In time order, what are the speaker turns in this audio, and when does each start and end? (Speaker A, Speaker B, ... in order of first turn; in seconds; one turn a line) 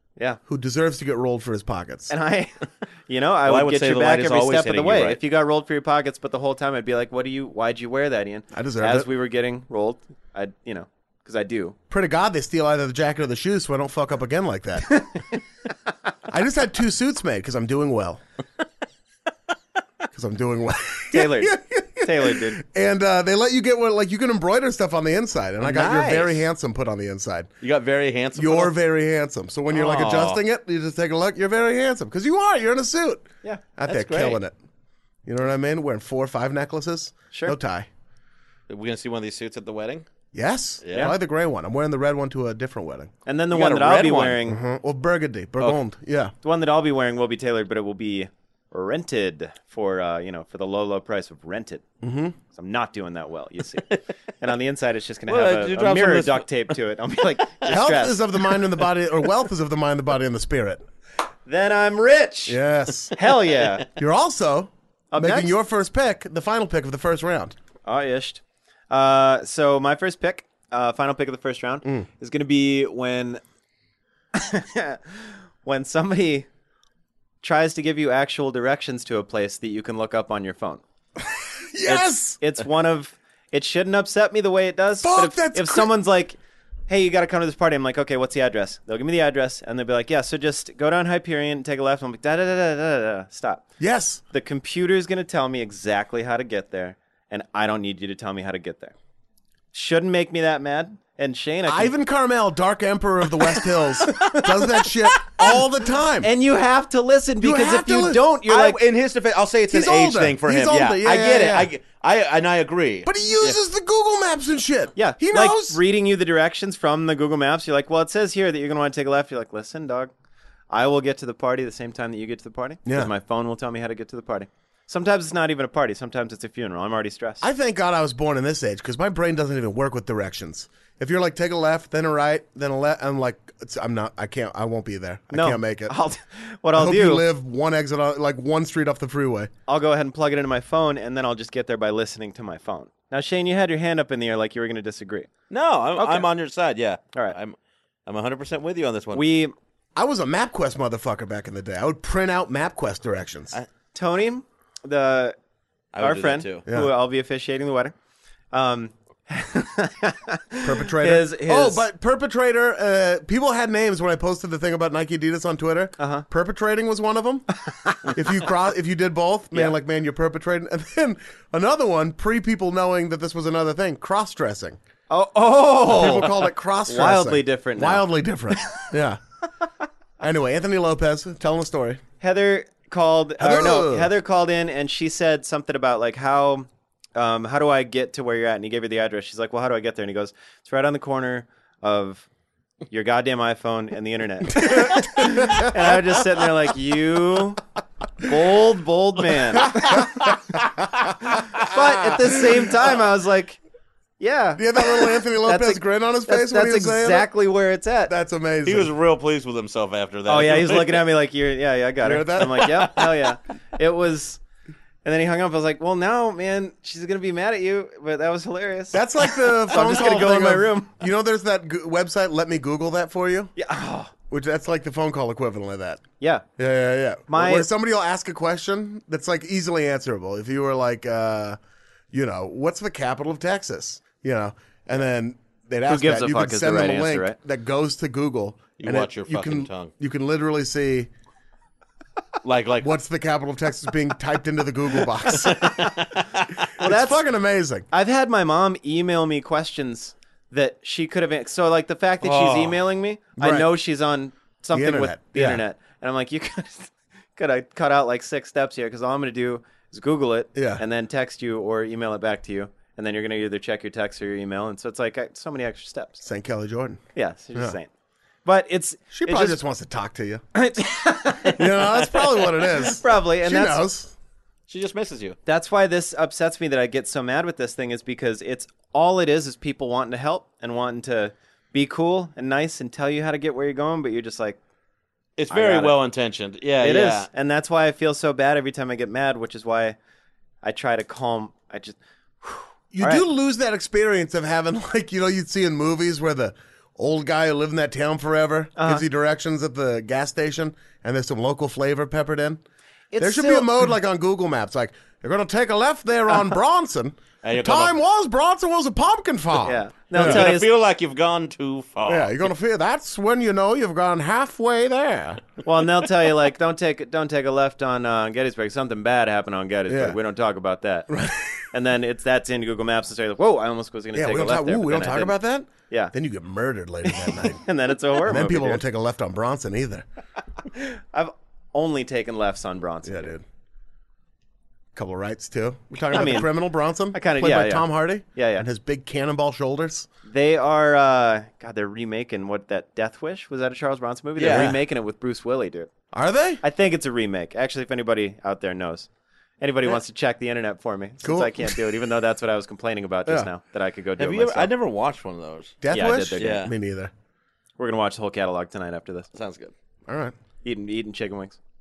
Speaker A: 0.5-2.1
Speaker B: 2.1-11.8
Speaker C: 3.5-5.2
Speaker A: 8.5-9.1
Speaker A: 11.9-15.0
Speaker B: 14.9-15.2
Speaker A: 16.3-18.2
Speaker A: 20.1-27.5
Speaker B: 21.1-22.6
Speaker C: 25.6-26.4
Speaker C: 27.6-28.7
Speaker A: 28.3-34.5
Speaker C: 29.7-30.4
Speaker C: 33.9-34.4
Speaker A: 35.2-37.9
Speaker C: 38.7-40.0
Speaker A: 40.3-43.1
Speaker C: 40.8-41.1
Speaker B: 43.2-44.6
Speaker C: 43.5-44.4
Speaker A: 44.5-46.3
Speaker B: 46.4-51.8
Speaker A: 52.0-52.4
Speaker B: 52.5-53.9
Speaker B: 54.4-58.2
Speaker C: 55.3-56.7
Speaker A: 57.7-60.8
Speaker B: 61.5-62.6
Speaker A: 62.5-63.1
Speaker B: 63.1-63.9
Speaker A: 64.0-67.5
Speaker B: 65.1-65.5
Speaker B: 67.8-73.4
Speaker B: 74.3-76.5
Speaker B: 77.4-80.8
Speaker A: 81.2-82.4
Speaker B: 81.8-93.6
Speaker A: 85.0-85.9
Speaker A: 93.8-94.2
Speaker B: 94.3-98.9
Speaker B: 99.7-101.9
Speaker A: 101.7-106.3
Speaker B: 106.2-108.8
Speaker A: 107.4-108.2
Speaker C: 108.5-113.6
Speaker A: 109.7-111.7
Speaker A: 113.0-115.8
Speaker B: 115.0-120.1
Speaker B: 120.7-127.5
Speaker A: 122.8-123.1
Speaker A: 127.4-135.9
Speaker B: 135.3-137.2
Speaker A: 136.7-139.5
Speaker B: 139.7-145.3
Speaker C: 145.5-147.6
Speaker B: 145.9-146.3
Speaker C: 148.1-149.2
Speaker B: 149.1-149.5
Speaker A: 149.9-153.6
Speaker B: 153.9-155.3
Speaker C: 155.9-156.6
Speaker B: 156.0-157.9
Speaker B: 158.5-161.8
Speaker A: 160.6-167.4
Speaker B: 166.0-166.2
Speaker B: 167.8-168.1
Speaker A: 168.1-174.8
Speaker B: 175.1-178.1
Speaker A: 175.8-179.2
Speaker A: 180.2-182.0
Speaker B: 182.2-192.2
Speaker A: 183.4-184.1
Speaker B: 192.9-197.6
Speaker A: 194.5-196.0
Speaker B: 198.2-200.1
Speaker A: 199.6-200.2
Speaker A: 201.1-202.4
Speaker B: 201.3-203.6
Speaker B: 204.2-208.1
Speaker A: 204.6-207.3
Speaker A: 208.1-208.9
Speaker C: 208.6-211.1
Speaker B: 210.2-214.4
Speaker A: 212.0-213.0
Speaker B: 215.0-220.9
Speaker A: 218.9-223.5
Speaker B: 223.6-224.1
Speaker A: 224.3-226.0
Speaker A: 226.6-231.6
Speaker B: 227.3-227.7
Speaker A: 232.1-241.1
Speaker B: 235.9-237.3
Speaker C: 238.8-239.9
Speaker C: 242.4-242.9
Speaker A: 242.8-245.8
Speaker C: 245.3-246.7
Speaker A: 246.8-247.9
Speaker B: 246.8-247.2
Speaker B: 247.9-266.2
Speaker C: 252.2-252.8
Speaker A: 253.4-253.7
Speaker A: 254.7-255.6
Speaker A: 260.5-260.8
Speaker A: 266.2-267.0
Speaker B: 267.1-267.9
Speaker B: 268.4-269.6
Speaker A: 269.1-270.4
Speaker B: 270.5-272.0
Speaker A: 271.6-274.1
Speaker B: 272.5-273.8
Speaker C: 274.7-275.4
Speaker B: 275.4-284.6
Speaker C: 285.4-287.3
Speaker B: 285.5-286.0
Speaker B: 286.8-289.9
Speaker B: 290.6-293.2
Speaker A: 292.9-302.6
Speaker B: 298.8-299.0
Speaker B: 303.1-303.8
Speaker A: 303.2-310.5
Speaker C: 307.4-307.9
Speaker B: 309.6-310.7
Speaker C: 310.1-312.4
Speaker A: 312.1-315.4
Speaker B: 315.6-321.1
Speaker A: 319.9-320.2
Speaker A: 321.1-321.6
Speaker B: 321.7-325.4
Speaker A: 324.1-327.6
Speaker B: 327.1-328.8
Speaker A: 328.2-330.0
Speaker B: 330.7-333.4
Speaker A: 333.0-333.4
Speaker A: 334.9-340.1
Speaker B: 336.1-336.5
Speaker B: 337.1-338.6
Speaker B: 340.3-345.9
Speaker C: 344.4-344.7
Speaker A: 344.5-344.8
Speaker A: 346.1-346.6
Speaker B: 346.6-349.1
Speaker B: 349.6-354.7
Speaker A: 351.2-351.8
Speaker C: 354.2-355.8
Speaker A: 355.8-357.1
Speaker B: 355.9-356.6
Speaker C: 356.4-356.7
Speaker B: 357.8-359.3
Speaker C: 359.3-359.7
Speaker A: 360.1-360.3
Speaker B: 360.6-361.6